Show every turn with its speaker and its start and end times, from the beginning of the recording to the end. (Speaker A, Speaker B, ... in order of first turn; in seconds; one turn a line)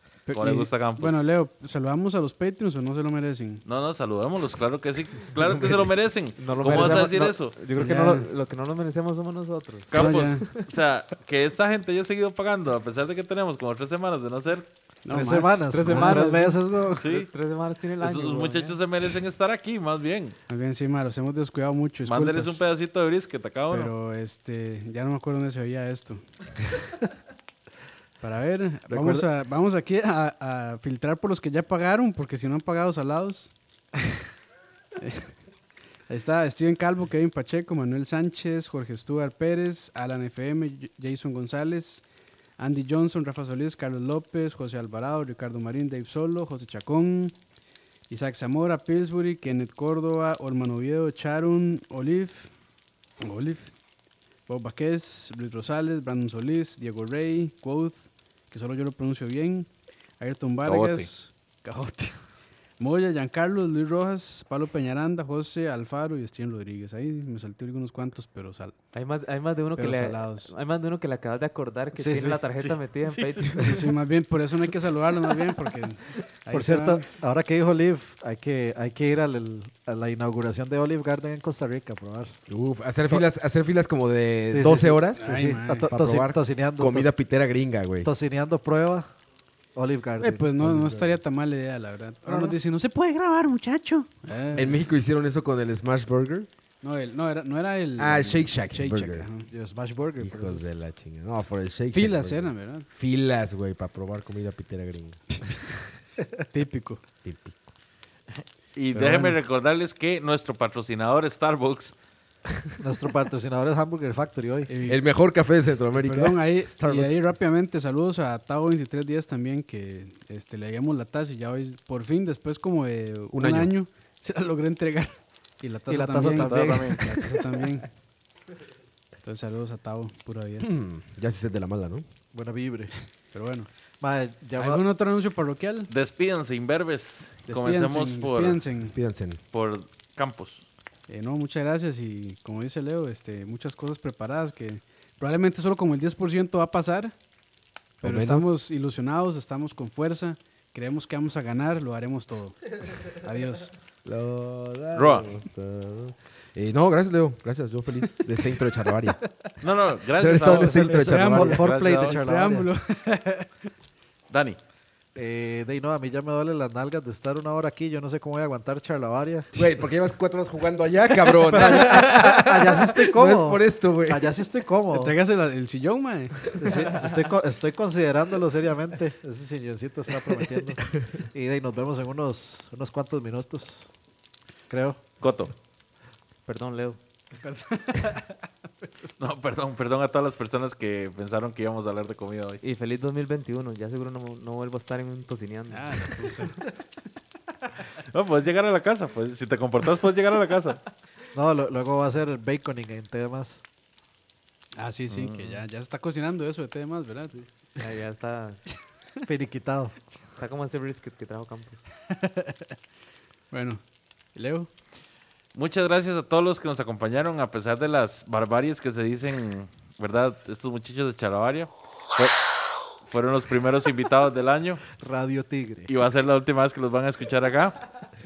Speaker A: 0.3-3.6
Speaker B: 0.3-1.2
Speaker B: 3.6-7.5
Speaker C: 5.3-6.0
Speaker D: 6.4-10.7
Speaker E: 7.8-8.1
Speaker A: 7.8-8.3
Speaker B: 9.9-14.7
Speaker A: 9.9-10.5
Speaker A: 15.0-16.5
Speaker E: 15.1-17.1
Speaker D: 15.7-18.8
Speaker B: 17.0-17.3
Speaker B: 18.0-20.4
Speaker A: 20.5-22.6
Speaker B: 22.1-23.9
Speaker A: 23.7-26.2
Speaker A: 28.2-33.5
Speaker E: 28.9-29.3
Speaker A: 35.0-35.3
Speaker A: 36.1-42.0
Speaker A: 42.6-47.3
Speaker A: 48.1-52.5
Speaker A: 53.2-53.7
Speaker A: 54.5-62.2
Speaker B: 60.6-61.1
Speaker A: 62.8-68.7
Speaker D: 68.9-73.8
Speaker A: 69.8-70.5
Speaker E: 72.0-72.4
Speaker B: 72.6-73.8
Speaker A: 73.6-77.0
Speaker E: 76.5-82.4
Speaker C: 82.5-88.1
Speaker E: 84.5-87.1
Speaker A: 85.2-85.9
Speaker E: 88.0-89.1
Speaker E: 89.7-90.5
Speaker A: 90.2-94.8
Speaker C: 90.6-91.2
Speaker E: 92.3-92.5
Speaker C: 94.5-96.5
Speaker A: 96.8-99.5
Speaker C: 98.0-99.3
Speaker E: 99.5-100.8
Speaker C: 100.2-105.2
Speaker A: 101.9-102.9
Speaker A: 106.5-107.0
Speaker C: 107.2-107.6
Speaker B: 108.3-111.9
Speaker A: 108.9-109.4
Speaker E: 112.8-114.7
Speaker A: 114.7-115.0
Speaker C: 114.8-117.2
Speaker A: 115.9-127.9
Speaker C: 123.3-123.7
Speaker E: 125.9-127.4
Speaker B: 126.3-127.0
Speaker A: 129.2-130.7
Speaker C: 130.6-132.0
Speaker E: 132.3-132.9
Speaker A: 133.3-133.7
Speaker E: 134.0-134.8
Speaker A: 134.6-135.9
Speaker B: 135.9-138.6
Speaker A: 137.5-138.9
Speaker C: 138.9-139.4
Speaker B: 139.5-140.6
Speaker A: 141.1-147.1
Speaker C: 148.0-148.5
Speaker A: 148.0-153.7
Speaker C: 154.0-159.2
Speaker B: 154.9-155.3
Speaker B: 159.6-162.2
Speaker C: 160.2-161.7
Speaker E: 160.4-162.7
Speaker A: 160.9-163.5
Speaker B: 164.3-164.6
Speaker E: 165.1-169.8
Speaker C: 169.5-174.4
Speaker E: 171.2-175.2
Speaker A: 174.9-176.5
Speaker E: 176.6-183.9
Speaker E: 184.7-185.0
Speaker B: 185.2-185.5
Speaker D: 186.4-187.0
Speaker A: 187.4-188.9
Speaker B: 189.2-192.6
Speaker D: 192.6-196.4
Speaker A: 195.7-196.6
Speaker B: 198.0-200.8
Speaker E: 201.3-203.6
Speaker A: 204.8-207.4
Speaker B: 205.1-205.6
Speaker D: 207.8-208.6
Speaker E: 209.2-209.9
Speaker D: 210.3-211.9
Speaker A: 212.1-212.7
Speaker A: 213.5-213.8
Speaker A: 214.3-214.7
Speaker B: 215.5-222.4
Speaker B: 223.0-224.8
Speaker E: 224.9-225.9
Speaker B: 225.9-227.9